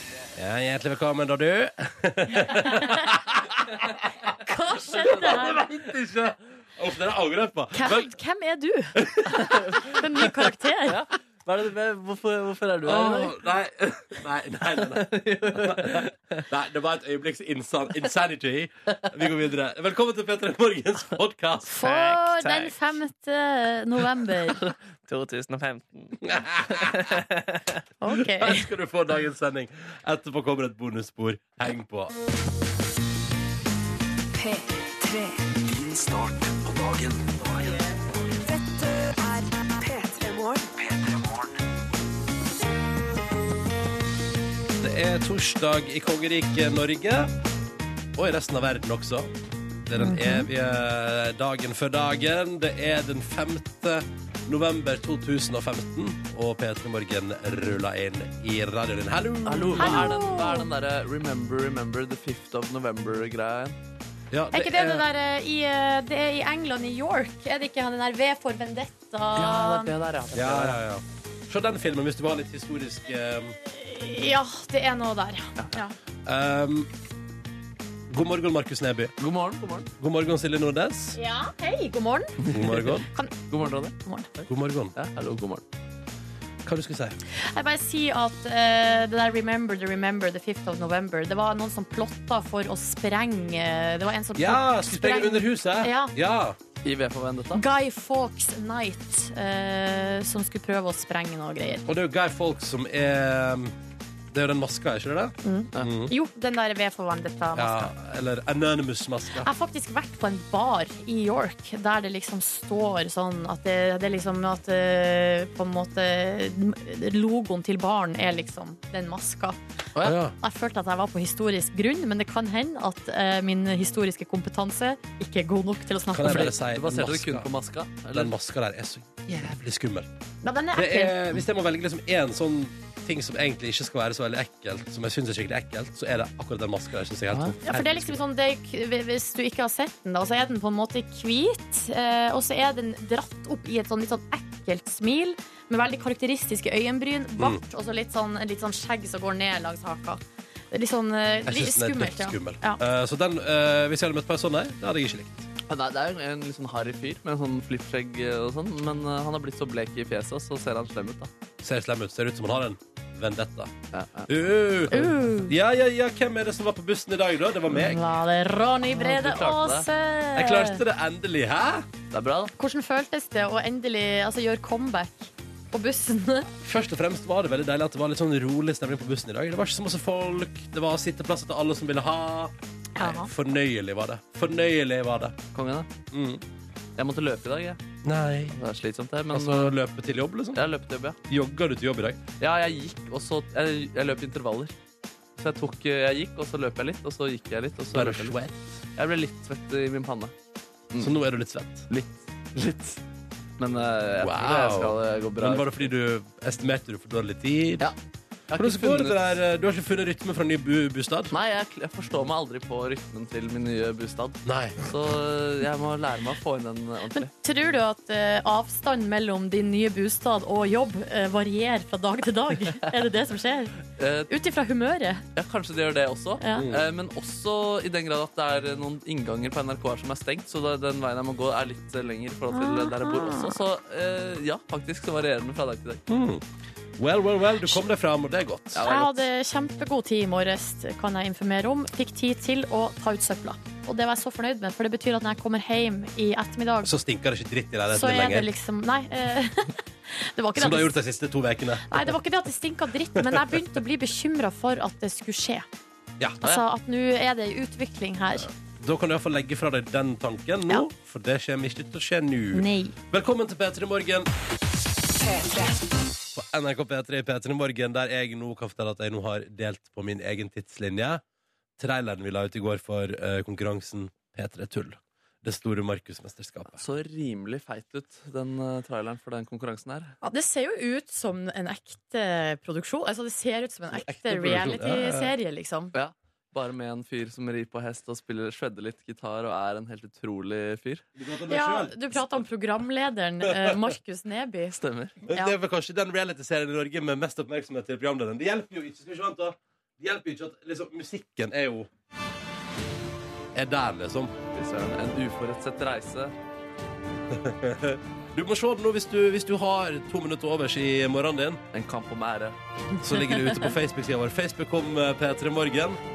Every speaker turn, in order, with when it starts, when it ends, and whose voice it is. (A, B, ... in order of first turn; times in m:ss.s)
0:00.4-0:04.3 A
0:04.4-0:05.7 B
0:05.1-0:08.1 A
0:07.7-0:09.0 B
0:08.9-0:09.7 A
0:09.5-0:09.8 C
0:09.8-0:11.0 B
0:10.8-0:13.4 C
0:12.8-0:21.7 A
0:14.8-0:16.4 C
0:21.6-0:24.6 B
0:21.8-0:22.8 C
0:24.5-0:26.2 C
0:26.2-0:27.2 A
0:26.8-0:27.4 C
0:28.0-0:28.7 B
0:28.1-0:32.1 A
0:34.4-0:35.5 D
0:35.6-0:37.8 E
0:38.4-0:40.7 D
0:40.9-0:41.3 E
0:44.8-0:47.3 A
0:48.1-0:49.3 A
0:49.8-1:00.1 A
0:50.0-0:50.5 B
0:59.4-1:03.8 C
0:59.8-1:00.7 B
1:04.3-1:05.0 A
1:04.5-1:09.9 B
1:09.4-1:10.8 C
1:10.3-1:13.6 A
1:13.6-1:15.9 B
1:16.2-1:16.9 A
1:18.1-1:19.1 A
1:19.2-1:19.9 C
1:20.0-1:21.2 A
1:21.2-1:22.4 B
1:22.4-1:25.6 C
1:22.5-1:23.0 A
1:23.1-1:24.3 B
1:24.5-1:24.9 A
1:26.6-1:27.2 A
1:27.3-1:36.1 B
1:34.4-1:36.6 A
1:36.8-1:37.6 C
1:37.5-1:41.8 B
1:41.8-1:43.7 A
1:44.3-1:46.1 A
1:45.4-1:47.9 B
1:47.5-1:49.5 A
1:49.4-1:59.6 B
2:00.0-2:00.3 A
2:00.4-2:06.5 B
2:06.1-2:07.5 A
2:06.2-2:08.3 C
2:08.1-2:10.1 A
2:10.4-2:11.2 B
2:10.7-2:18.2 A
2:17.3-2:17.6 C
2:17.7-2:32.8 B
2:31.5-2:35.5 A
2:35.7-2:41.3 C
2:41.6-2:43.7 A
2:43.9-2:44.3 C
2:44.3-2:48.0 A
2:44.9-2:45.5 B
2:47.7-2:50.8 B
2:48.8-2:49.9 C
2:50.3-2:51.9 A
2:52.1-2:52.5 C
2:52.6-2:56.5 B
2:56.6-3:05.4 A
3:03.0-3:03.3 B
3:05.5-3:05.9 C
3:06.1-3:06.4 A
3:07.0-3:07.8 C
3:08.0-3:08.6 A
3:08.5-3:09.8 C
3:09.3-3:10.6 A
3:10.5-3:11.2 C
3:11.3-3:12.2 A
3:12.4-3:14.7 C
3:15.4-3:18.4 C
3:17.9-3:18.6 A
3:19.0-3:20.3 C
3:21.0-3:21.9 A
3:21.9-3:23.0 C
3:23.6-3:25.9 C
3:24.2-3:27.9 A
3:28.5-3:29.4 C
3:28.6-3:31.3 A
3:31.3-3:37.3 C
3:34.4-3:34.8 A
3:37.1-3:43.8 B
3:43.9-3:44.3 C
3:44.3-3:45.2 B
3:45.4-3:56.0 C
3:46.4-3:46.7 B
3:46.5-3:46.8 A
3:52.5-3:53.6 B
3:56.1-3:56.4 A
3:57.0-3:58.8 A
3:58.7-3:59.3 C
3:58.8-4:06.9 B
4:06.8-4:08.5 A
4:07.9-4:11.0 B
4:10.6-4:12.1 A
4:11.9-4:15.7 B
4:16.2-4:16.4 A
4:16.4-4:18.5 B
4:18.4-4:24.3 A
4:22.5-4:23.0 B
4:26.3-4:31.2 A
4:31.8-4:36.8 A
4:36.8-4:40.2 C
4:40.2-4:45.9 B
4:43.9-4:45.3 A
4:45.9-4:51.0 C
4:51.2-4:52.4 A
4:51.5-4:54.8 B
4:53.5-4:53.9 A
4:54.7-4:55.2 C
4:55.2-5:01.9 A
4:55.3-4:55.5 B
5:03.5-5:04.3 A
5:04.5-5:06.3 C
5:07.3-5:11.6 A
5:11.7-5:12.6 C
5:13.0-5:16.0 A